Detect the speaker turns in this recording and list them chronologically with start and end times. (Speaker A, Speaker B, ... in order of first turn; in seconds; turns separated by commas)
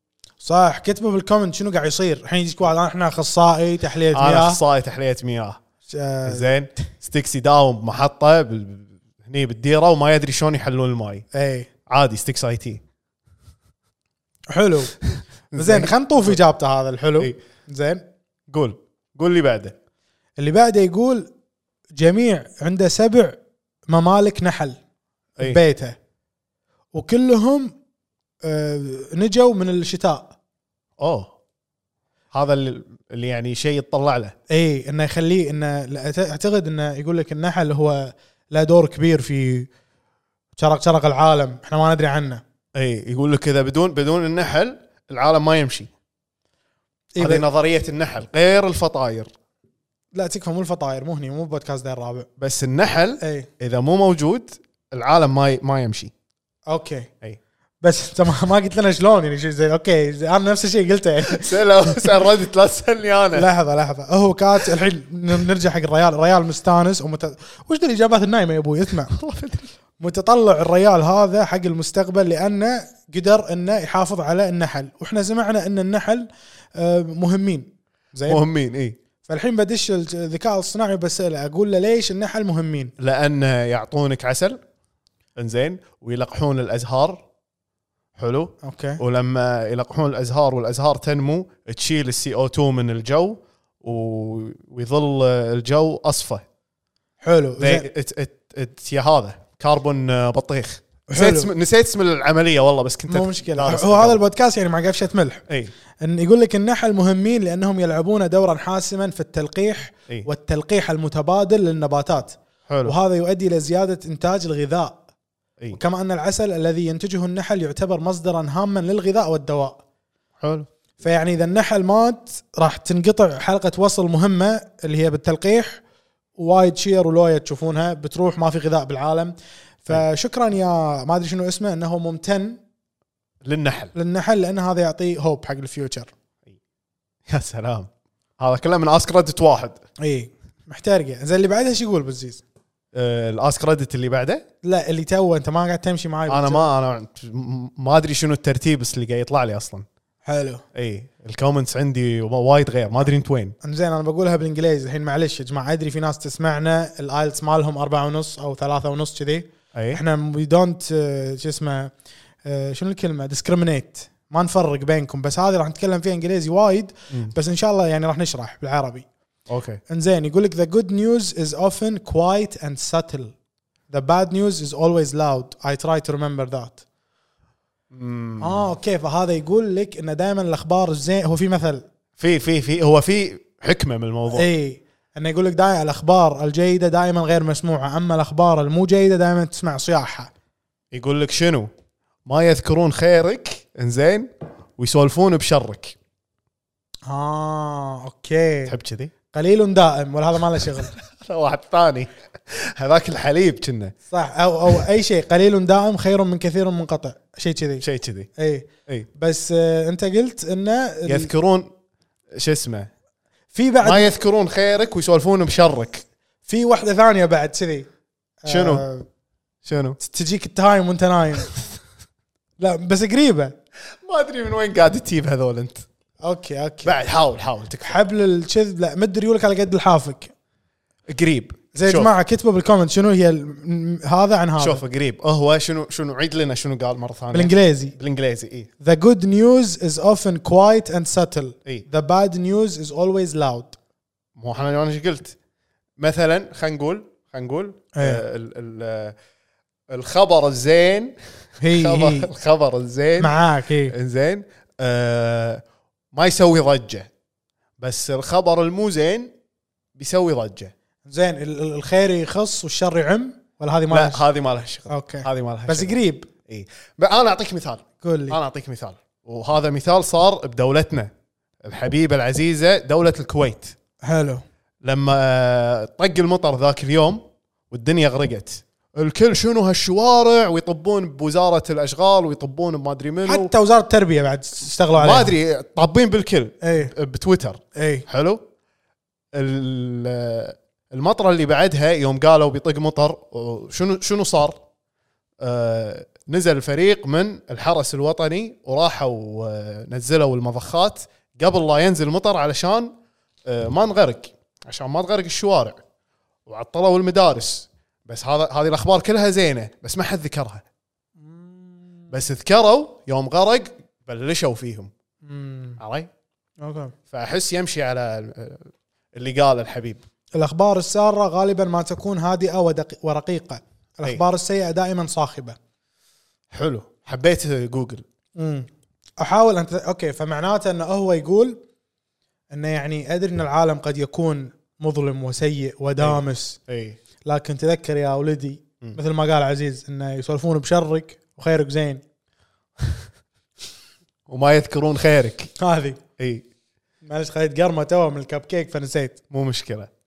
Speaker A: 0.4-4.6, Speaker B: 4.1-5.6, Speaker A: 5.9-6.5, Speaker B: 6.2-11.2, Speaker A: 11.3-11.7, Speaker B: 11.8-12.8, Speaker A: 14.5-15.0, Speaker B: 15.0-16.4, Speaker A: 15.5-18.0, Speaker B: 18.5-19.7, Speaker A: 20.4-21.3, Speaker A: 22.0-23.4, Speaker A: 23.9-24.8, Speaker A: 25.4-25.9, Speaker A: 26.9-27.7, Speaker A: 28.4-30.3, Speaker B: 31.0-31.3, Speaker B: 32.3-34.3, Speaker A: 34.5-39.7, Speaker A: 40.5-42.4, Speaker B: 42.7-45.9, Speaker A: 47.1-47.4, Speaker B: 47.2-49.3, Speaker A: 50.1-52.3, Speaker B: 52.4-56.1, Speaker A: 53.2-53.5, Speaker A: 56.7-57.1, Speaker A: 57.8-62.0, Speaker B: 61.3-63.5, Speaker A: 63.3-69.1, Speaker B: 69.1-69.7, Speaker A: 70.0-78.4, Speaker B: 78.3-79.0, Speaker A: 79.2-82.9, Speaker B: 83.0-84.6, Speaker B: 85.4-87.2, Speaker B: 88.2-96.4, Speaker A: 88.6-89.0, Speaker A: 97.2-97.9, Speaker B: 97.6-104.2, Speaker A: 101.1-101.5, Speaker A: 103.1-105.5, Speaker B: 105.5-105.7, Speaker A: 106.0-115.0, Speaker B: 112.7-112.9, Speaker A: 115.7-119.8, Speaker B: 120.4-120.7, Speaker A: 121.0-125.8, Speaker A: 126.4-132.6, Speaker B: 133.4-133.9, Speaker A: 133.9-136.1, Speaker B: 137.3-139.8, Speaker A: 140.0-142.4, Speaker B: 142.9-144.4, Speaker A: 144.6-146.7, Speaker B: 146.3-149.8, Speaker A: 150.2-150.6, Speaker B: 150.7-153.6, Speaker A: 153.6-161.9, Speaker B: 159.7-160.0, Speaker A: 162.4-169.1, Speaker B: 169.5-169.8, Speaker A: 169.9-173.3, Speaker A: 173.9-176.8, Speaker B: 177.9-178.7, Speaker A: 178.4-181.8, Speaker B: 182.2-184.5, Speaker A: 184.3-190.3, Speaker B: 190.9-191.7, Speaker B: 192.2-195.9, Speaker A: 197.1-198.7, Speaker B: 198.7-199.1, Speaker A: 199.3-200.9, Speaker B: 200.7-203.9, Speaker A: 204.1-207.8, Speaker B: 207.8-208.3, Speaker A: 208.4-211.3, Speaker B: 211.1-211.7, Speaker B: 212.3-212.9, Speaker A: 213.5-214.1, Speaker B: 213.8-216.0, Speaker A: 216.4-217.9, Speaker A: 218.4-219.1, Speaker B: 218.5-218.8, Speaker B: 219.6-220.0, Speaker A: 220.0-221.5, Speaker A: 222.6-223.5, Speaker B: 224.0-225.8, Speaker A: 226.2-226.9, Speaker B: 226.8-228.0, Speaker A: 227.8-230.3, Speaker B: 231.1-232.1, Speaker A: 231.7-234.8, Speaker B: 234.6-238.7, Speaker A: 237.3-237.9, Speaker A: 238.8-243.8, Speaker B: 244.4-245.3, Speaker B: 246.0-249.1, Speaker A: 247.9-248.2, Speaker B: 249.9-253.3, Speaker A: 251.6-252.3, Speaker A: 253.2-253.9, Speaker B: 253.9-257.1, Speaker B: 257.8-259.3, Speaker B: 259.9-260.7, Speaker A: 261.1-264.2, Speaker B: 263.9-271.1, Speaker A: 264.9-266.3, Speaker A: 268.0-268.4, Speaker B: 271.6-273.7, Speaker A: 274.0-274.4, Speaker B: 274.8-283.5, Speaker A: 283.2-285.3, Speaker B: 284.9-288.4, Speaker A: 286.6-286.9, Speaker A: 287.7-288.1, Speaker B: 289.3-294.6, Speaker B: 295.4-302.9, Speaker B: 303.4-305.8, Speaker B: 306.5-310.6, Speaker A: 311.2-312.1, Speaker B: 312.1-314.9, Speaker A: 315.2-315.8, Speaker B: 315.8-316.1, Speaker A: 316.6-316.9, Speaker B: 317.1-320.0, Speaker A: 320.3-325.6, Speaker B: 326.5-328.0, Speaker A: 328.4-328.7, Speaker A: 329.2-331.6, Speaker A: 332.5-336.6, Speaker B: 336.0-337.0, Speaker A: 337.2-342.0, Speaker B: 344.3-345.5, Speaker A: 345.6-346.0, Speaker B: 346.2-346.4, Speaker A: 347.0-349.2, Speaker B: 349.3-349.9